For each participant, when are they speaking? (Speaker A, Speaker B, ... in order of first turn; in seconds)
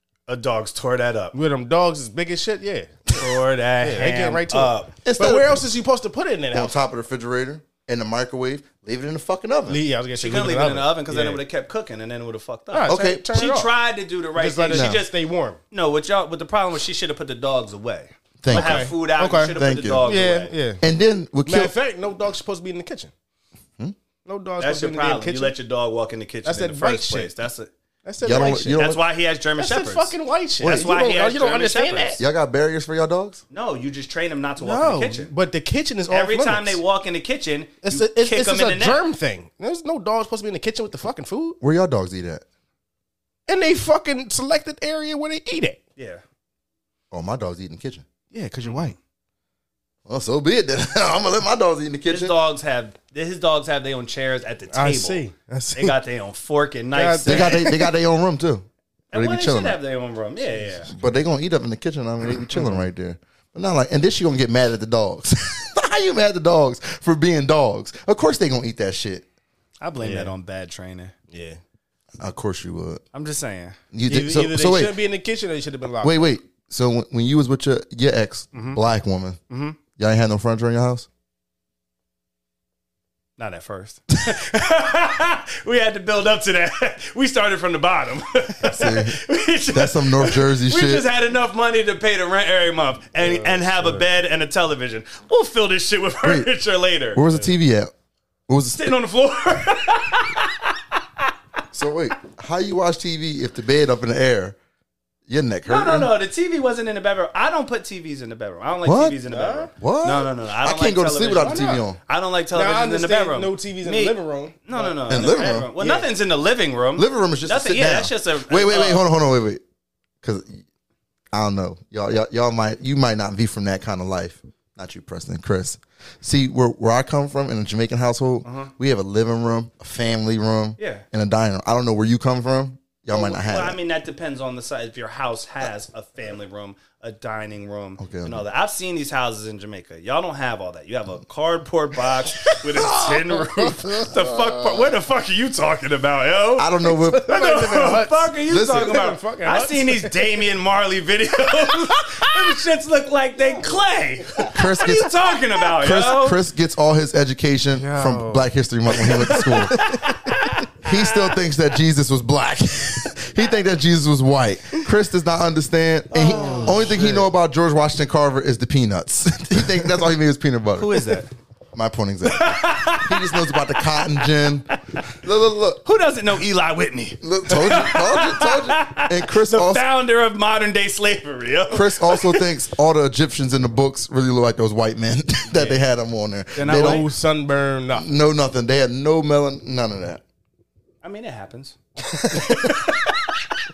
Speaker A: 0.3-1.3, 3.1-5.0, 10.2-15.1, 15.7-20.5, 24.6-27.7, 28.3-32.2, 33.5-35.3, 36.1-39.0, 46.0-46.2, 48.6-48.9, 52.1-57.7, 59.1-60.9, 69.8-71.1, 73.1-73.8, 78.5-78.8, 79.5-79.8, 83.4-97.4, 98.7-101.3, 105.7-119.0, 128.4-128.7, 130.8-131.0, 133.1-156.4, 159.3-161.4, 166.1-167.2, 170.8-171.3, 172.3-173.8, 175.8-182.5, 186.6-187.1, 191.0-191.8, 192.3-193.1
Speaker B: 1.3-3.3, 3.8-6.8, 9.7-11.4, 12.7-13.7, 14.4-15.6, 18.5-20.8, 21.4-23.1, 24.2-25.5, 26.4-27.3, 28.1-28.8, 29.6-32.2, 34.6-36.8, 37.8-41.6, 43.5-45.8, 48.3-49.0, 54.7-56.0, 56.9-57.7, 62.5-62.8, 70.0-70.3, 71.3-71.6, 74.1-76.3, 93.2-94.0, 109.3-109.7, 112.5-116.1, 142.5-144.2, 146.8-150.4, 157.7-160.0, 166.3-167.2, 186.6-188.1, 192.0-192.8
Speaker C: 5.0-5.6, 6.5-9.8, 12.9-13.4, 14.7-15.0, 18.4-18.9, 19.5-20.1, 20.8-21.7, 28.2-29.0, 32.2-33.4, 41.6-42.5, 47.1-48.0, 50.1-52.4, 57.3-59.8, 60.9-69.2, 72.2-73.0, 73.9-75.0, 76.0-79.4, 80.0-81.1, 88.6-89.2, 89.7-91.1, 96.2-96.5, 97.2-97.9, 98.5-98.9, 101.7-104.6, 105.3-106.1, 108.8-109.2, 109.8-112.0, 115.1-115.7, 117.0-119.6, 120.2-120.6, 121.3-133.8, 138.0-138.4, 146.6-147.3, 148.5-149.0, 154.5-155.1, 155.8-159.8, 160.8-171.2, 171.7-175.8, 177.2-179.8, 181.7-187.1, 187.9-190.2